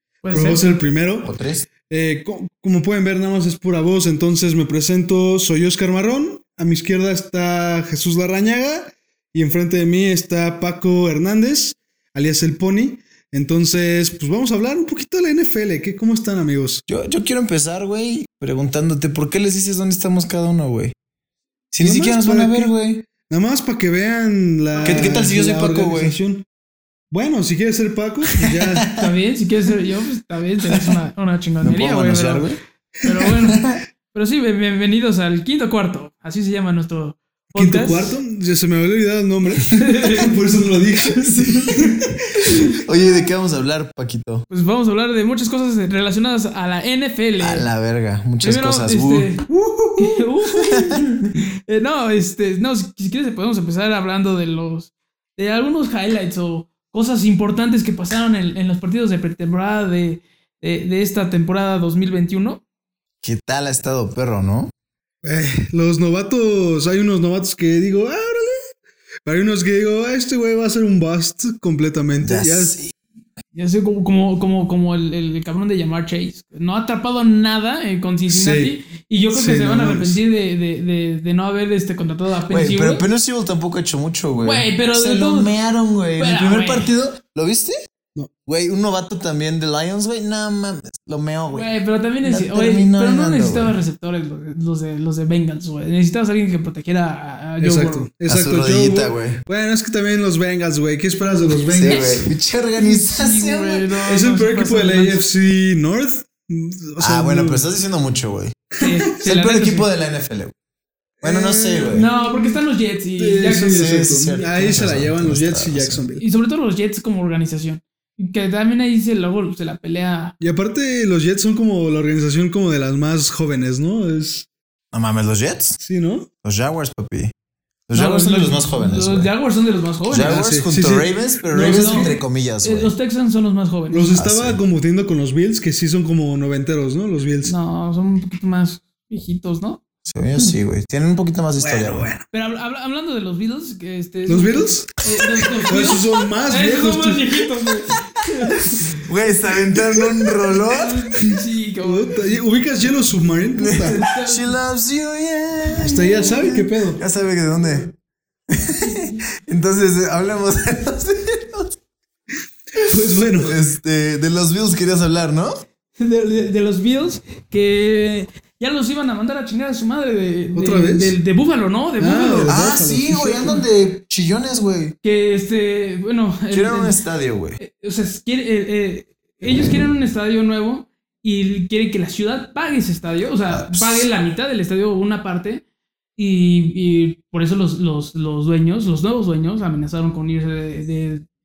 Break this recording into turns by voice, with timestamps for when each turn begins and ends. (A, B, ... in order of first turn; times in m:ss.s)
0:00.2-0:00.6 A
0:00.3-0:01.3 B
0:01.2-0:01.7 C
0:01.9-0:16.8 B
0:16.9-0:21.0 C
0:21.7-0:23.0 C
0:21.8-0:26.4 B
0:24.8-0:26.2 C
0:27.1-0:28.9 B
0:28.4-0:29.1 C
0:29.0-0:32.5 A
0:30.7-0:31.0 C
0:31.6-0:32.6 C
0:33.0-0:38.2 A
0:33.3-0:33.8 C
0:37.6-0:42.6 B
0:39.7-0:40.3 A
0:41.2-0:41.5 C
0:42.4-0:44.5 C
0:44.5-0:47.7 A
0:47.4-0:49.8 C
0:48.4-0:49.4 A
0:50.0-1:02.6 A
1:03.2-1:04.7 C
1:05.2-1:08.7 B
1:09.2-1:12.8 B
1:12.2-1:12.9 C
1:13.6-1:23.0 A
1:18.3-1:18.7 B
1:19.3-1:20.2 B
1:22.5-1:27.8 C
1:24.4-1:25.5 A
1:26.2-1:26.9 A
1:28.5-1:31.7 C
1:31.5-1:38.1 A
1:32.2-1:33.8 C
1:37.6-1:42.2 B
1:38.3-1:39.4 C
1:41.7-1:43.9 C
1:41.9-1:45.2 A
1:44.1-1:47.6 B
1:47.0-1:48.6 C
1:48.8-1:49.9 A
1:49.2-1:50.5 C
1:51.2-1:52.6 B
1:51.2-1:52.1 C
1:51.9-1:53.9 A
1:53.2-1:56.2 B
1:53.7-1:56.0 C
1:56.2-2:00.4 A
2:00.4-2:04.5 B
2:04.9-2:05.8 C
2:05.8-2:06.3 B
2:06.4-2:07.3 C
2:07.9-2:09.3 C
2:07.9-2:10.4 A
2:10.1-2:12.9 C
2:10.2-2:11.2 B
2:11.5-2:14.1 A
2:11.7-2:12.1 B
2:13.9-2:17.5 B
2:14.1-2:14.6 C
2:17.4-2:19.8 A
2:20.0-2:22.1 C
2:21.6-2:22.3 B
2:22.3-2:29.0 A
2:24.3-2:25.0 B
2:25.7-2:27.4 B
2:29.0-2:31.0 C
2:29.7-2:30.1 B
2:30.5-2:32.2 A
2:31.3-2:34.0 B
2:33.6-2:37.9 C
2:33.7-2:34.6 A
2:35.8-2:37.0 B
2:38.5-2:41.8 C
2:38.8-2:39.2 A
2:42.7-2:43.6 B
2:43.3-2:45.6 C
2:46.0-2:52.6 A
2:50.5-2:51.2 B
2:52.0-2:53.6 B
2:52.5-2:55.0 C
2:55.0-2:57.0 A
2:56.5-2:57.6 C
2:57.6-3:05.6 A
3:03.5-3:04.1 C
3:06.2-3:11.2 A